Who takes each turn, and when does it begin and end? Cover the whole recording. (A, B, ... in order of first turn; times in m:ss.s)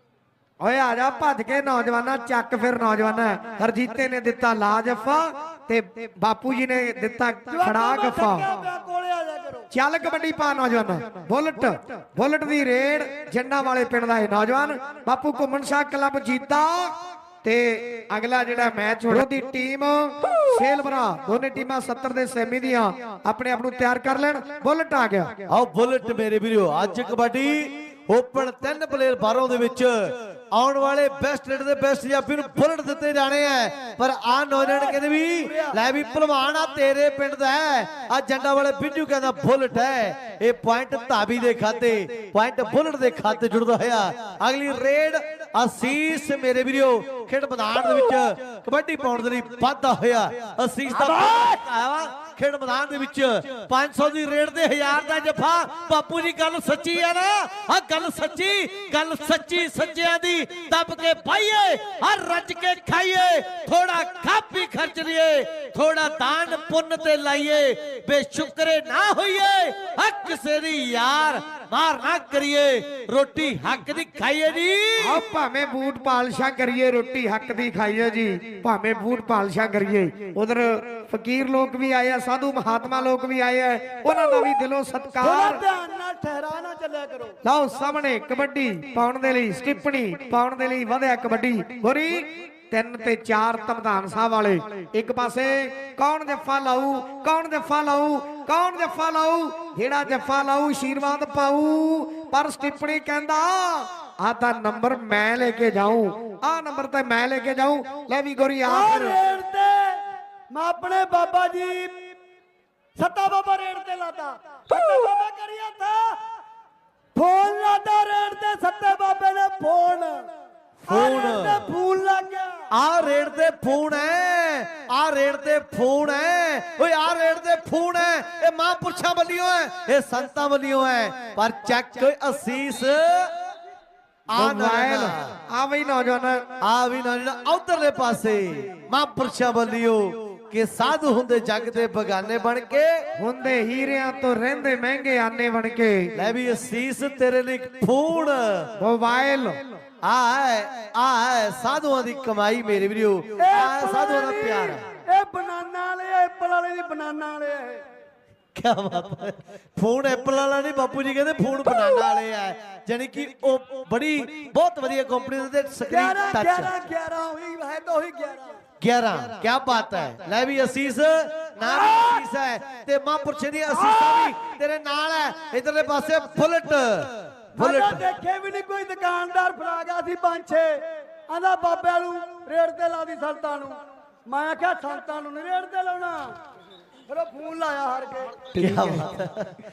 0:00.6-0:08.6 A
0:07.5-0:09.7 B
0:09.7-0:25.4 A
0:25.5-1:15.2 C
0:34.6-0:35.8 B
0:50.9-0:51.6 B
1:15.0-1:25.6 A
1:25.2-1:27.4 B
1:27.4-1:49.2 A
1:48.6-1:52.1 B
1:53.0-1:56.2 B
1:57.2-2:00.3 B
2:00.8-2:01.6 C
2:00.9-2:02.6 B
2:02.7-2:13.3 C
2:14.3-2:15.3 C
2:14.4-2:16.4 A
2:16.6-2:23.0 C
2:23.2-2:26.1 A
2:26.2-2:28.7 C
2:28.8-2:29.7 A
2:30.0-2:34.8 C
2:33.4-2:37.8 B
2:38.6-2:46.7 C
2:45.9-2:48.5 B
2:48.8-2:58.1 C
2:51.6-2:52.2 B
2:53.7-2:54.4 B
2:57.6-3:00.7 B
3:01.3-3:06.3 B
3:07.1-3:08.4 B
3:08.5-3:09.6 C
3:08.6-3:09.1 A